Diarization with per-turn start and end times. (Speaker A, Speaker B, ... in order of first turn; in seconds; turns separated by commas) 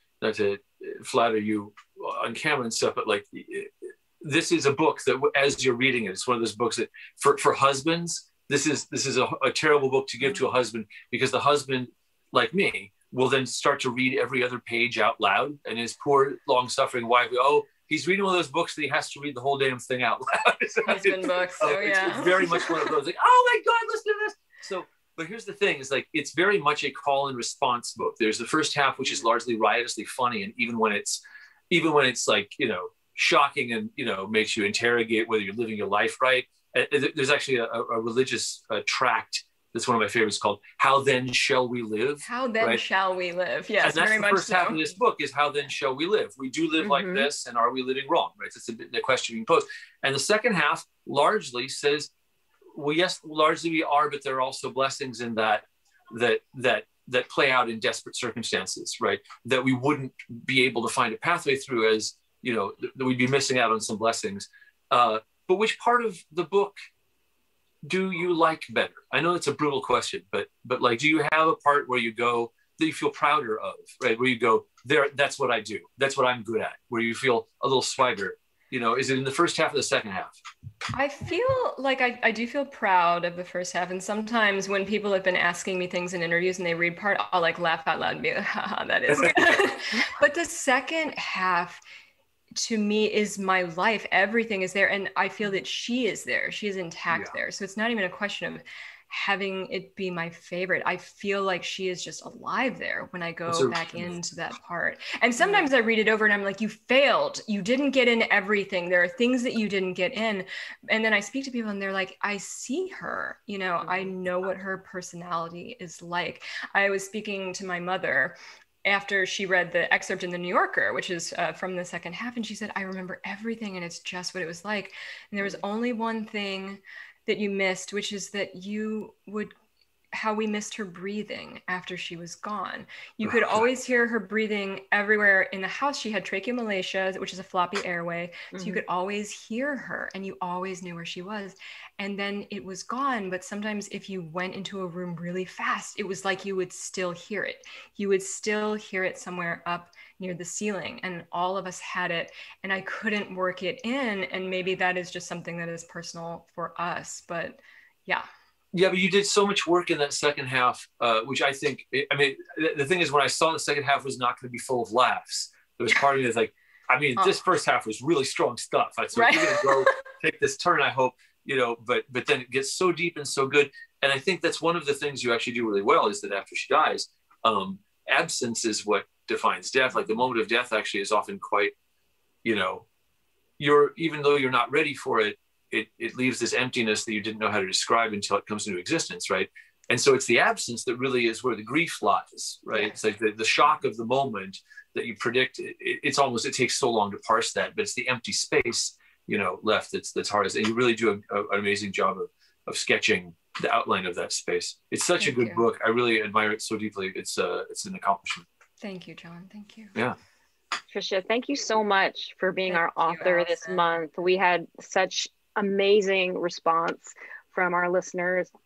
Speaker A: 0.2-42.8, Speaker B: 20.9-23.0, Speaker B: 42.2-44.8, Speaker A: 43.8-52.1, Speaker C: 46.8-47.2, Speaker A: 52.7-66.8, Speaker A: 67.8-80.3, Speaker B: 80.9-91.8, Speaker A: 89.1-89.6, Speaker B: 92.5-129.5, Speaker A: 103.5-104.2, Speaker C: 105.4-105.7, Speaker C: 113.8-114.1, Speaker B: 130.1-158.2, Speaker A: 133.2-133.6, Speaker C: 138.5-138.8, Speaker A: 158.7-181.7, Speaker B: 169.1-169.9, Speaker A: 182.4-182.8, Speaker A: 183.6-208.4, Speaker B: 205.2-205.6, Speaker B: 208.8-209.9, Speaker C: 210.9-218.5, Speaker B: 212.7-213.8